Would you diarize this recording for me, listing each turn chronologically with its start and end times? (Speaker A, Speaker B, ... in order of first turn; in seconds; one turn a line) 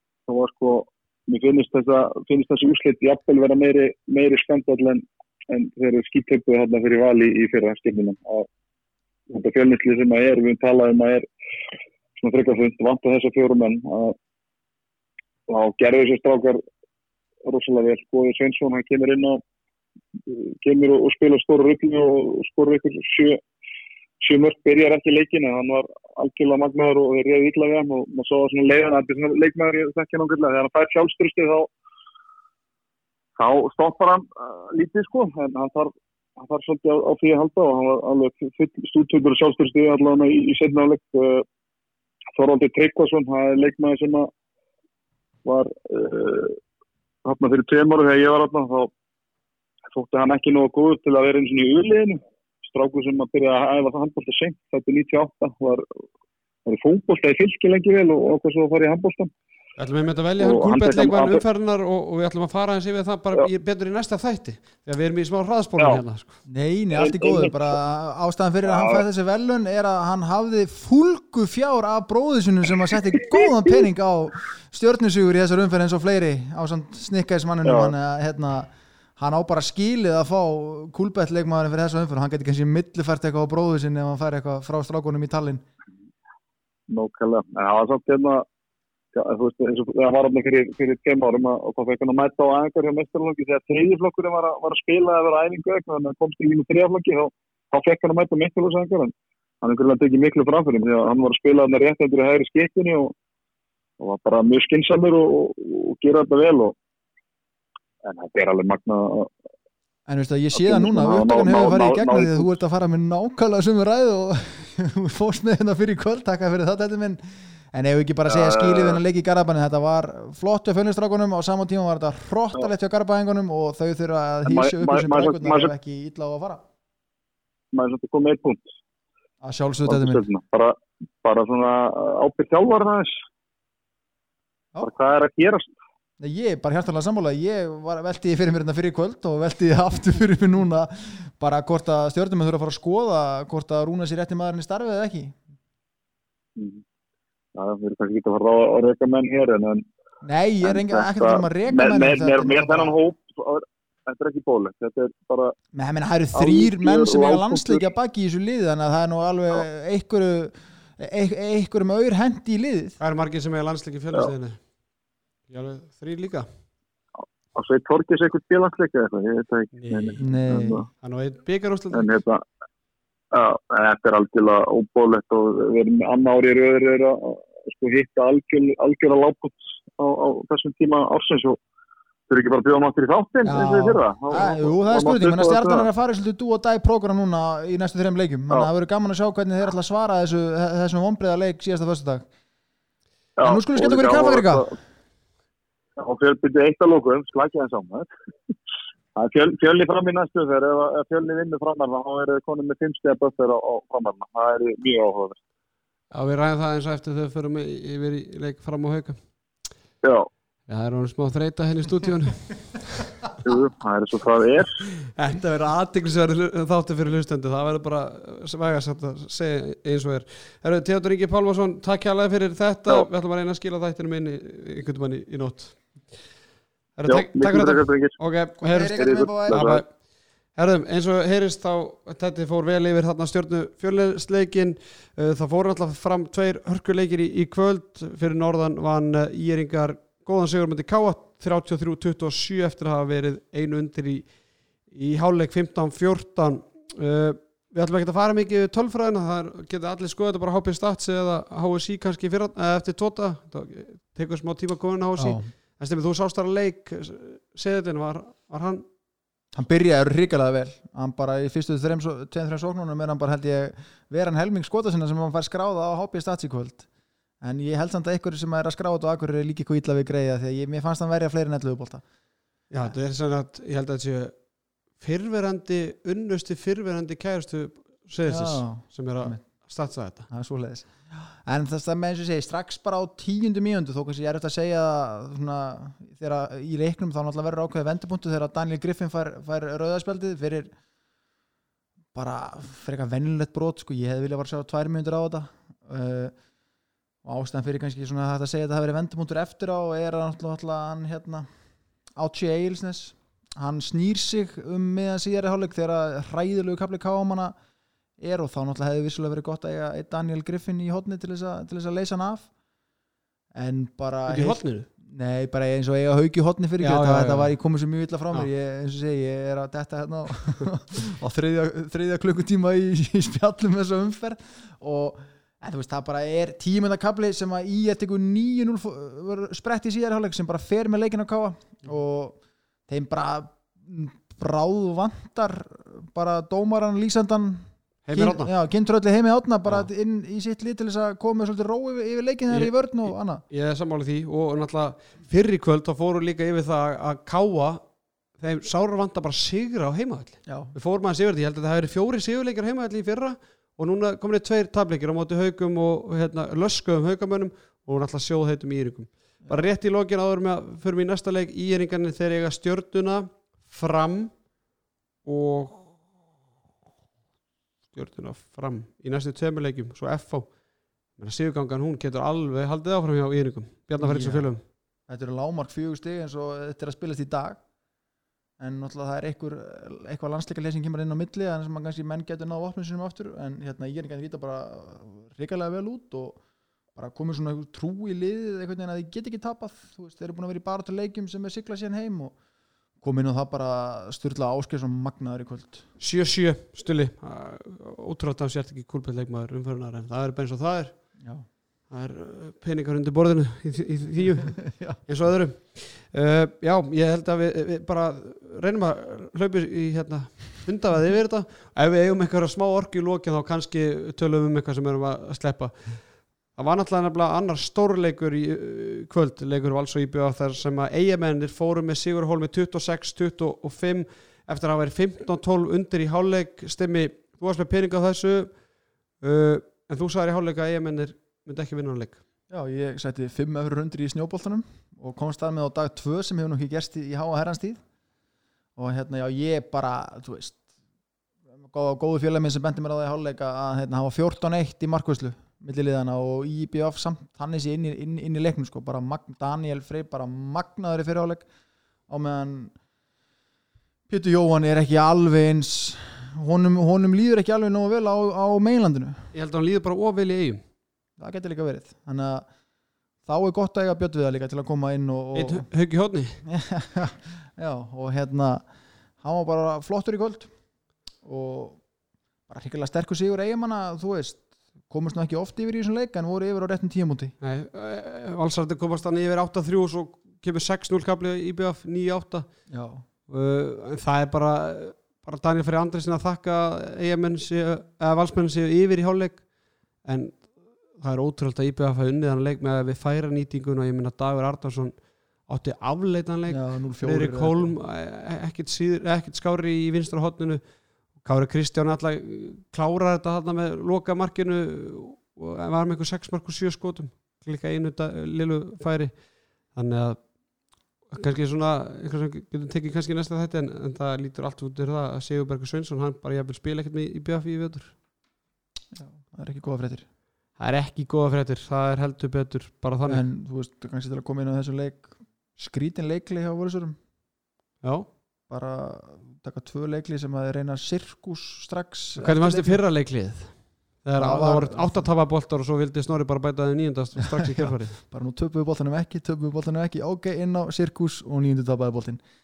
Speaker A: 0.3-8.5
Speaker A: 9.3-11.3
Speaker A: 12.2-14.2
Speaker A: 15.5-16.6
Speaker A: 17.5-19.4
Speaker A: 20.3-23.4
Speaker A: 24.2-31.7
Speaker A: 33.4-41.4
Speaker A: 42.4-44.3
Speaker A: 45.4-46.6
Speaker A: 47.2-48.9
Speaker A: 49.9-55.9
Speaker A: 56.7-59.3
Speaker B: 59.8-66.4
Speaker A: 60.4-61.4
Speaker C: 66.5-85.6
Speaker A: 67.0-67.8
Speaker A: 68.7-69.0
Speaker A: 77.6-77.9
Speaker A: 86.9-88.4
Speaker A: 89.1-103.1
Speaker A: 104.0-106.8
Speaker A: 108.0-109.3
Speaker C: 110.1-126.6
Speaker A: 110.5-112.5
Speaker A: 118.3-119.0
Speaker A: 124.4-125.7
Speaker A: 127.7-128.6
Speaker C: 129.4-130.2
Speaker A: 129.9-133.1
Speaker A: 134.8-135.7
Speaker C: 136.2-145.4
Speaker A: 146.6-146.8
Speaker A: 147.6-149.8
Speaker C: 150.2-152.9
Speaker A: 150.6-155.6
Speaker C: 155.7-163.0
Speaker A: 156.3-157.8
Speaker B: 163.0-164.6
Speaker B: 165.5-166.5
Speaker A: 167.5-170.9
Speaker B: 169.8-172.1
Speaker C: 170.2-170.8
Speaker A: 171.9-172.4
Speaker A: 173.3-181.6
Speaker A: 182.3-185.9
Speaker C: 183.4-192.3
Speaker A: 193.4-194.7
Speaker C: 193.4-194.7
Speaker A: 196.0-198.1
Speaker A: 199.2-205.4
Speaker B: 206.1-209.2
Speaker A: 210.0-210.3
Speaker B: 210.7-213.0
Speaker A: 213.4-214.8
Speaker B: 215.1-226.0
Speaker B: 226.9-229.9
Speaker A: 227.1-228.2
Speaker C: 228.6-229.7
Speaker A: 228.9-229.8
Speaker B: 230.5-258.8
Speaker C: 255.2-255.5
Speaker C: 259.5-266.9
Speaker C: 267.4-272.0
Speaker B: 272.7-274.4
Speaker B: 274.9-280.3
Speaker C: 278.2-279.4
Speaker C: 280.3-290.7
Speaker C: 292.1-296.4
Speaker C: 297.2-301.5
Speaker C: 302.2-307.5
Speaker C: 308.2-312.5
Speaker C: 313.5-343.4
Speaker B: 314.3-314.9
Speaker B: 316.8-317.6
Speaker B: 338.1-338.5
Speaker B: 342.5-364.5
Speaker C: 350.4-350.8
Speaker B: 365.2-365.9
Speaker B: 367.9-370.6
Speaker B: 371.1-374.6
Speaker C: 374.0-377.6
Speaker C: 378.6-386.4
Speaker C: 386.9-392.4
Speaker C: 393.0-395.9
Speaker B: 396.0-401.2
Speaker C: 401.2-401.5
Speaker B: 401.9-428.6
Speaker C: 404.6-405.0
Speaker B: 429.2-432.2
Speaker C: 432.5-437.8
Speaker C: 438.8-440.6
Speaker C: 441.7-451.5
Speaker C: 452.1-452.8
Speaker C: 454.1-459.3
Speaker B: 459.3-460.6
Speaker C: 461.2-462.5
Speaker C: 463.2-465.7
Speaker B: 465.3-466.4
Speaker C: 466.4-468.7
Speaker C: 469.2-470.5
Speaker C: 471.2-471.9
Speaker C: 472.5-477.4
Speaker B: 477.4-482.5
Speaker C: 482.7-483.0
Speaker B: 483.3-489.5
Speaker B: 490.0-500.6
Speaker C: 496.5-497.8
Speaker B: 501.1-510.3
Speaker B: 511.1-518.0
Speaker C: 518.9-520.1
Speaker B: 520.6-523.2
Speaker C: 523.1-527.0
Speaker B: 527.8-528.1
Speaker C: 528.5-532.8
Speaker B: 532.2-538.0
Speaker C: 534.2-535.1
Speaker C: 537.2-542.2